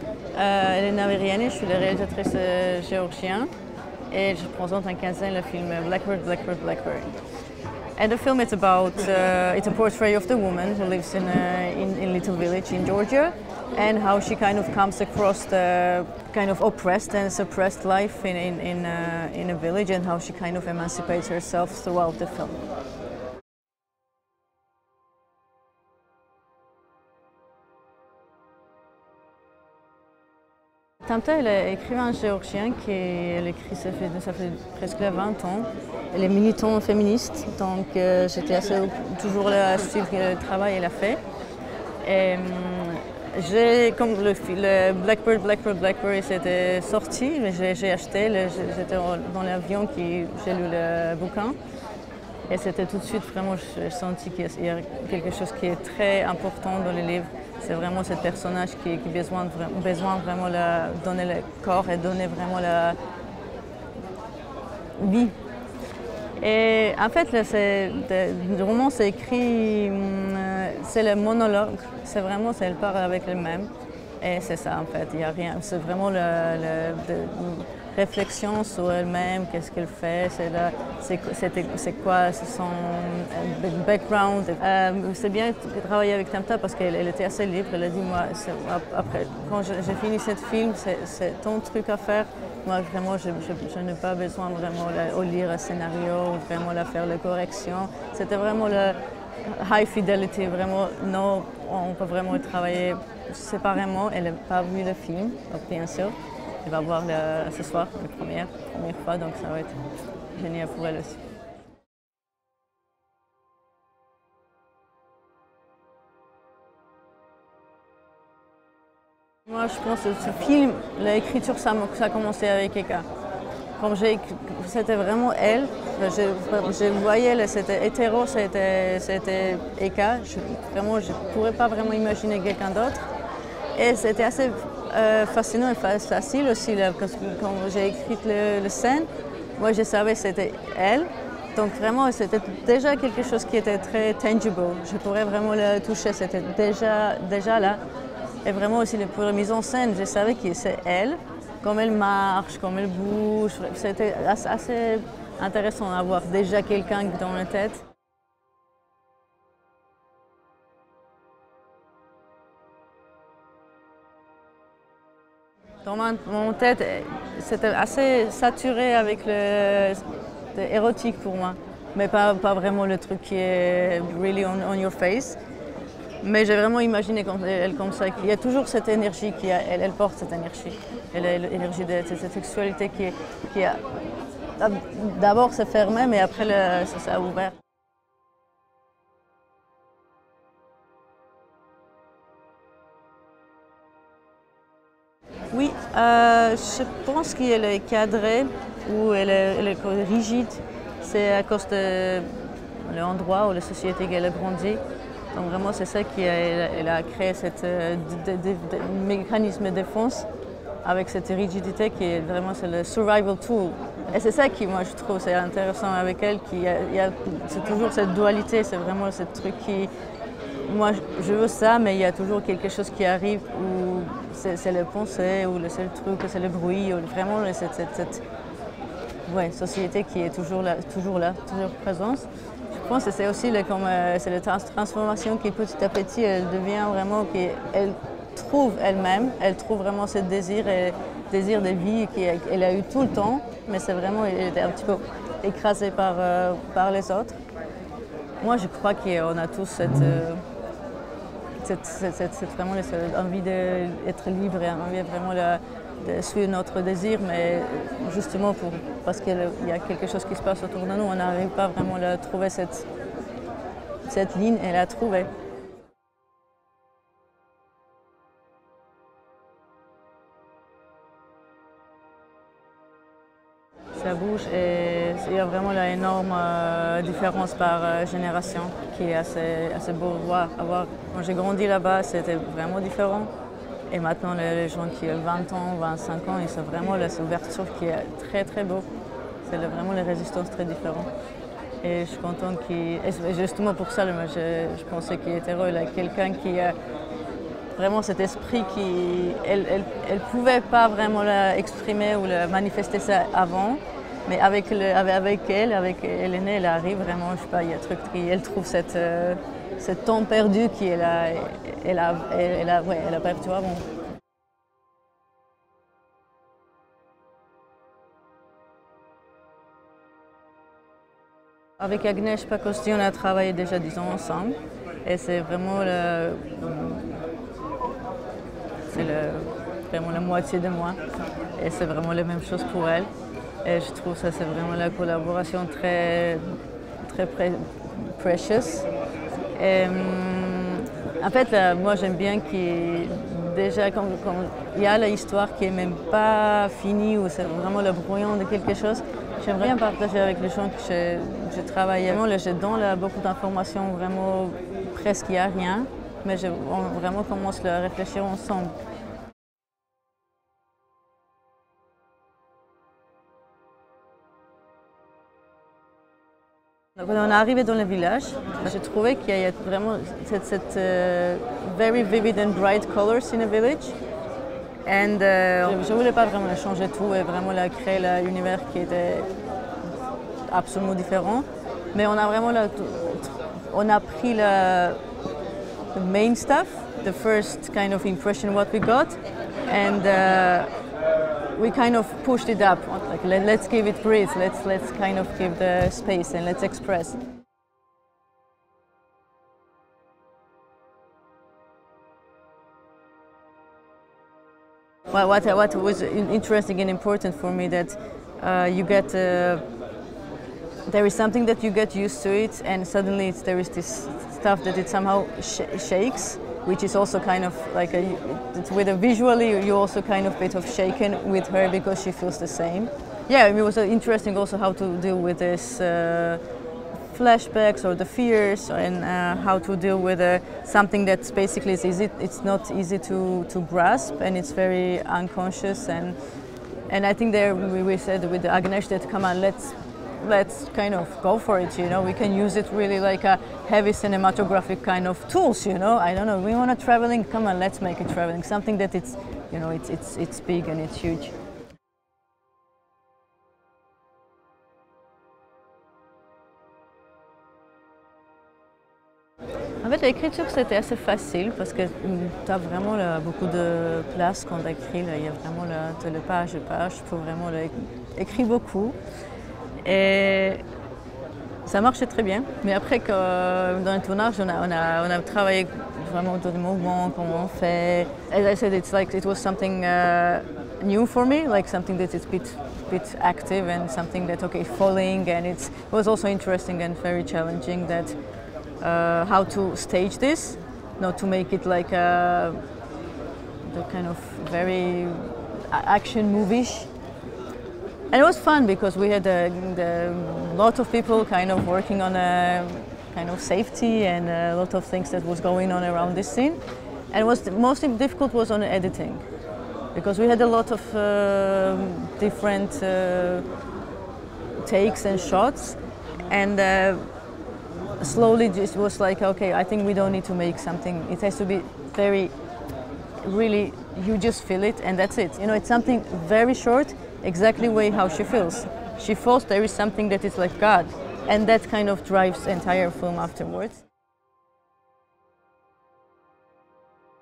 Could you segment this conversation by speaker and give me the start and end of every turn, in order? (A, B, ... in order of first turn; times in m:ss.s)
0:00.3-0:03.5 A
0:04.1-0:07.2 A
0:08.0-0:22.6 A
0:31.0-0:41.2 A
0:42.0-0:51.6 A
0:52.5-1:03.0 A
1:05.0-1:05.4 A
1:06.4-1:51.2 A
1:59.5-2:03.1 A
2:03.8-2:13.1 A
2:13.8-2:27.8 A
2:28.4-2:37.8 A
2:45.8-2:55.4 A
2:56.2-3:03.8 A
3:04.6-3:07.6 A
3:15.5-3:24.8 A
3:25.3-3:30.3 A
3:30.8-3:39.9 A
3:40.6-3:48.2 A
3:49.3-4:07.4 A
4:08.4-4:10.4 A
4:11.6-4:22.9 A
4:24.1-4:25.3 A
4:34.0-4:43.3 A
4:43.9-4:48.9 A
4:49.4-4:51.1 A
4:51.8-4:56.8 A
4:57.7-5:13.9 A
5:21.8-5:27.2 A
5:28.9-5:31.0 A
5:31.6-5:33.1 A
5:33.6-5:38.9 A
5:39.6-5:58.8 A
6:07.0-6:14.0 A
6:14.9-6:19.3 A
6:20.5-6:25.0 A
6:25.9-6:30.7 A
6:31.6-6:37.2 A
6:45.1-6:49.6 A
6:50.9-7:06.4 A
7:07.1-7:16.2 A
7:16.9-7:31.3 A
7:39.8-7:49.0 A
7:49.8-7:50.6 A
7:51.6-8:08.2 A
8:08.8-8:12.6 A
8:13.6-8:16.9 A
8:18.1-8:29.2 A
8:29.9-8:33.5 A
8:34.6-8:37.1 A
8:38.0-8:42.3 A
8:43.2-8:53.8 A